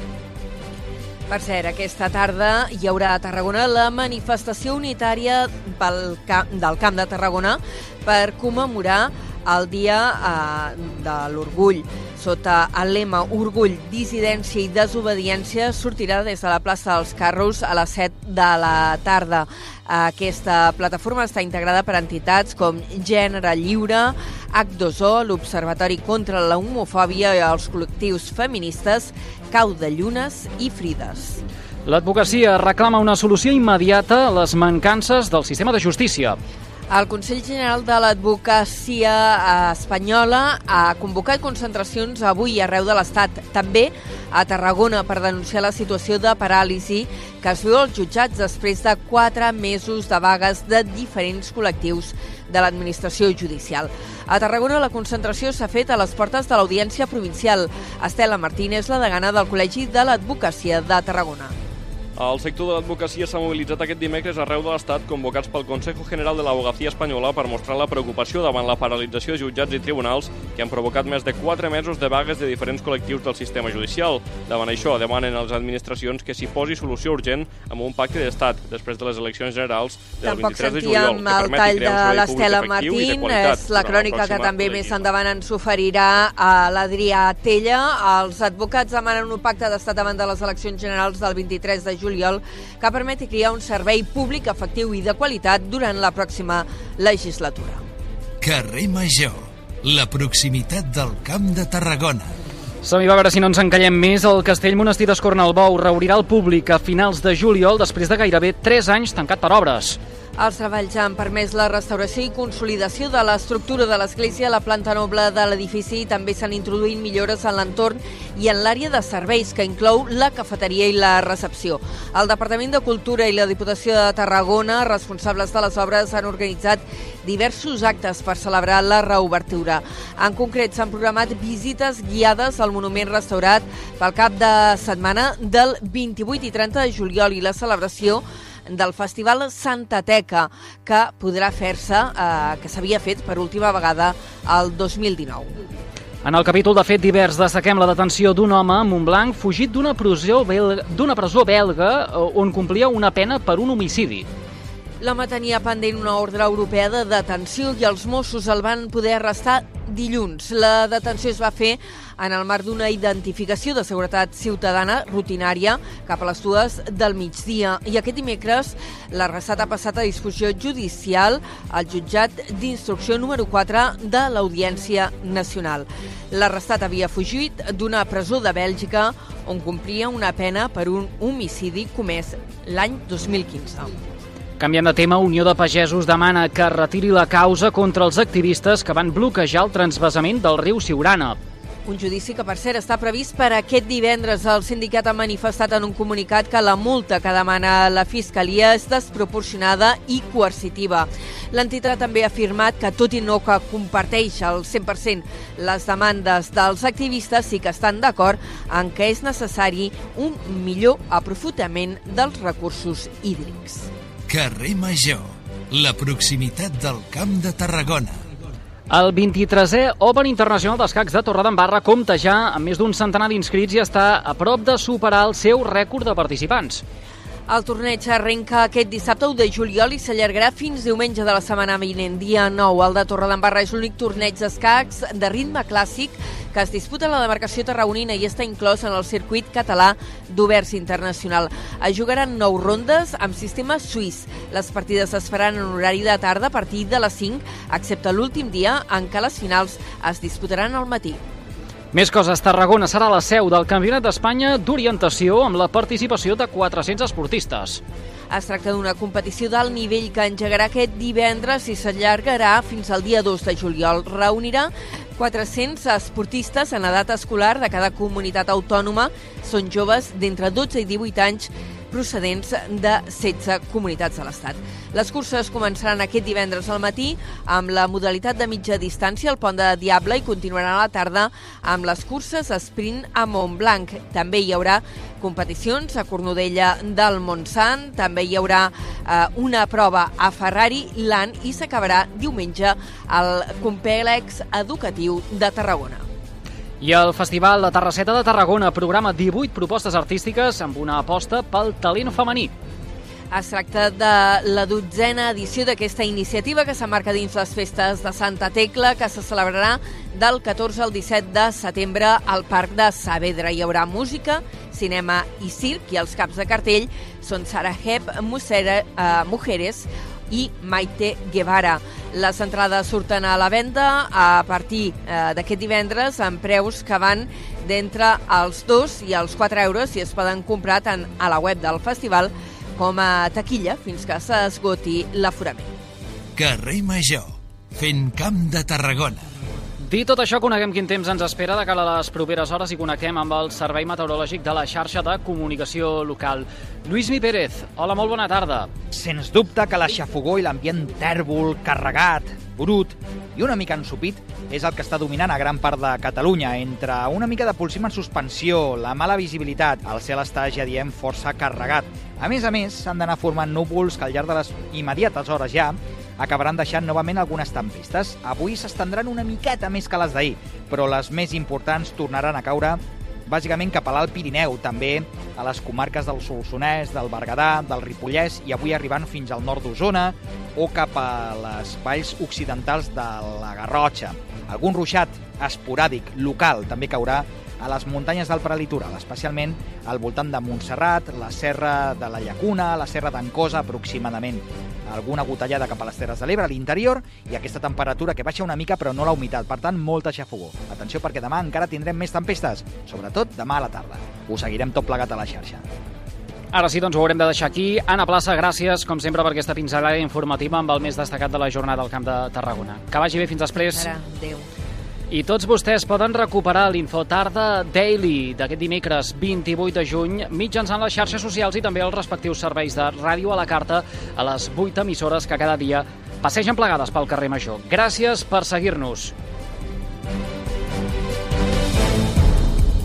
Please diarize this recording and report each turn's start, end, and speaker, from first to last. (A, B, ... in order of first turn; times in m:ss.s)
0:01.3-0:31.4 A
0:31.8-0:36.4 B
0:36.9-1:01.5 A
1:02.2-1:25.1 C
1:20.2-1:37.8 A
1:38.4-1:42.3 D
1:42.8-1:50.0 B
1:50.4-2:25.5 A
2:26.2-2:34.3 B
2:35.0-3:03.9 A
3:04.6-3:11.4 B
3:11.9-3:33.9 A
3:34.3-3:38.2 D
3:38.9-3:46.8 B
3:47.5-4:11.2 A
4:11.9-4:17.8 B
4:18.3-4:56.0 A
4:56.8-5:02.5 B
5:03.3-5:35.7 A
5:36.4-5:39.3 D
5:39.8-5:48.7 B
5:48.9-6:45.6 E
6:46.5-6:53.9 B
6:53.6-6:54.5 A
6:55.1-7:09.1 B